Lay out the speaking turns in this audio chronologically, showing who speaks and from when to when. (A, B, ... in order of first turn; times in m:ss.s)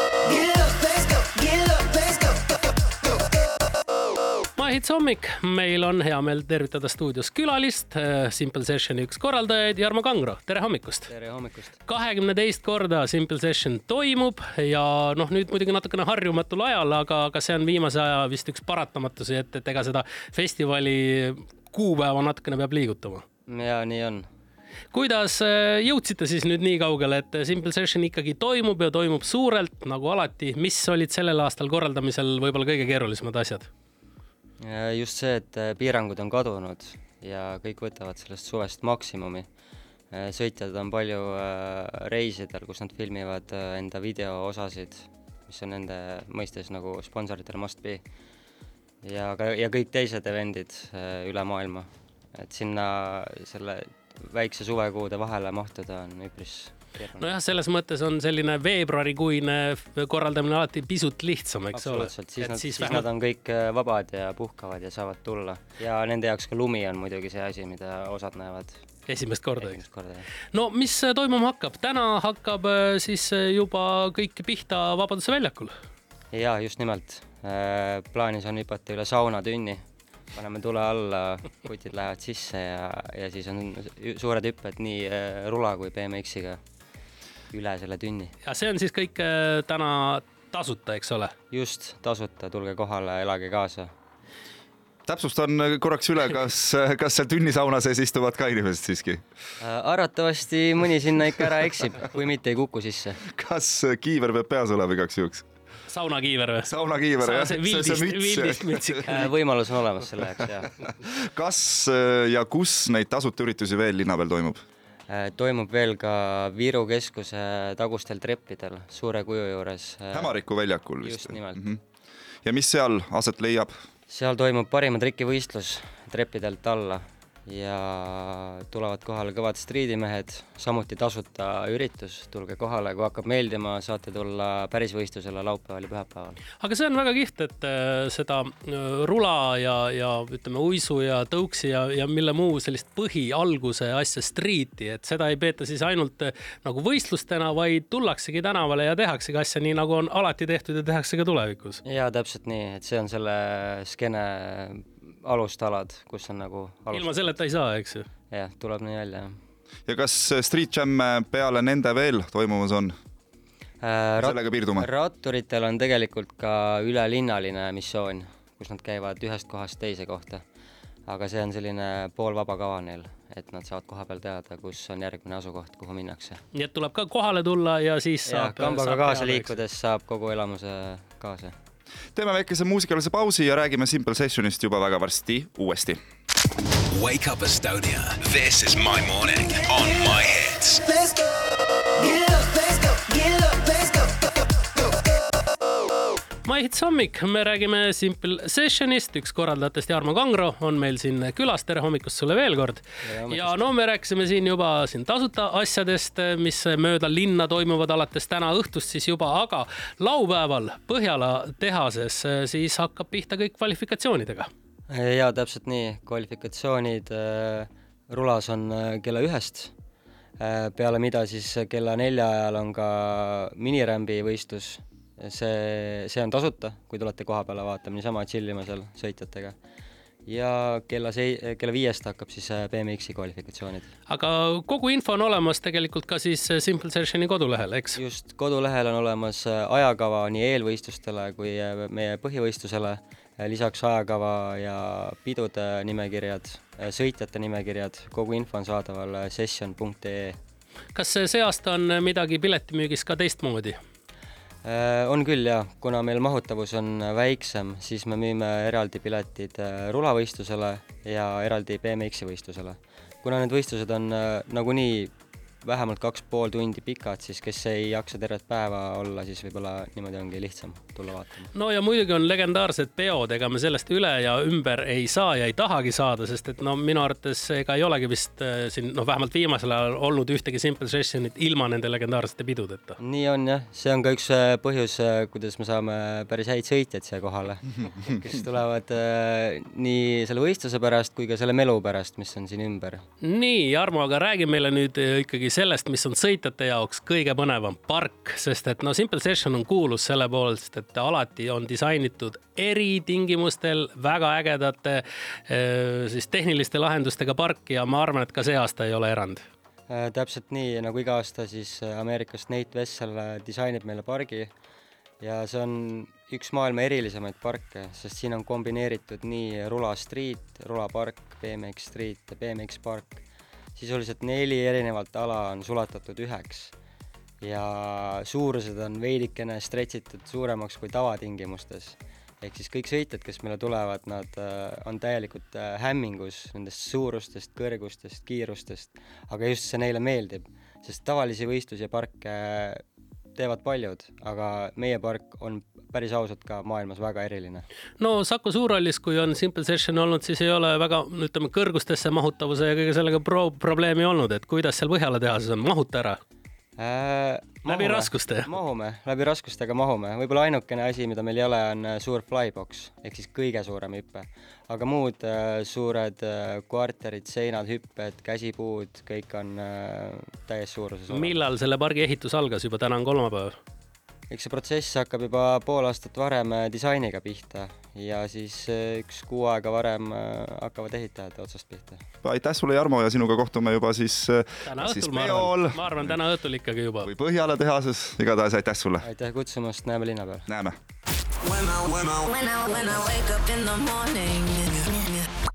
0:00.4-0:02.1 A
0:04.6-0:11.1 B
0:11.1-0:11.8 C
0:11.8-0:23.2 B
0:23.5-0:24.2 C
0:24.9-0:33.7 B
0:34.6-0:39.5 C
0:40.1-0:48.0 C
0:49.0-0:57.4 C
0:57.2-1:03.0 B
1:01.7-1:08.8 C
1:09.1-1:09.8 B
1:09.6-1:10.3 C
1:10.5-1:15.7 B
1:16.3-1:26.6 C
1:27.5-1:28.3 C
1:28.4-1:31.3 B
1:31.5-1:33.9 C
1:35.0-1:39.2 D
1:39.6-1:43.2 C
1:43.2-1:45.4 D
1:45.9-1:46.7 B
1:46.6-1:49.2 D
1:47.2-1:49.3 B
1:49.1-1:50.8 C
1:50.8-1:54.6 D
1:55.1-2:00.4 C
2:00.1-2:01.8 D
2:01.0-2:01.7 C
2:02.4-2:03.8 D
2:04.1-2:16.4 C
2:16.6-2:31.8 B
2:31.8-2:37.1 C
2:36.9-2:38.1 B
2:38.3-2:39.4 C
2:39.9-2:42.9 D
2:43.8-2:50.4 C
2:44.2-2:44.9 D
2:51.1-2:56.4 C
2:56.5-2:59.6 B
2:58.2-3:01.5 C
3:02.1-3:06.0 D
3:06.9-3:11.0 E
3:12.1-3:13.8 A
3:16.4-3:34.5 B
3:23.0-3:23.6 C
3:34.9-3:39.7 C
3:40.4-3:49.6 C
3:50.2-3:53.9 C
3:54.1-3:58.0 B
3:57.9-4:10.4 C
4:10.9-4:13.8 B
4:14.6-4:31.5 C
4:31.5-4:43.0 B
4:43.0-4:53.0 C
4:53.2-5:09.4 B
5:09.9-5:14.5 C
5:15.2-5:23.2 C
5:23.7-5:26.7 C
5:27.4-5:42.8 C
5:43.3-5:47.6 C
5:48.0-5:56.2 B
5:56.8-6:11.4 C
5:57.6-5:58.5 B
6:11.1-6:13.6 B
6:14.3-6:22.0 C
6:22.2-6:26.2 D
6:24.6-6:27.1 B
6:27.0-6:29.0 D
6:29.0-6:30.5 C
6:30.5-6:30.8 D
6:31.4-6:35.3 A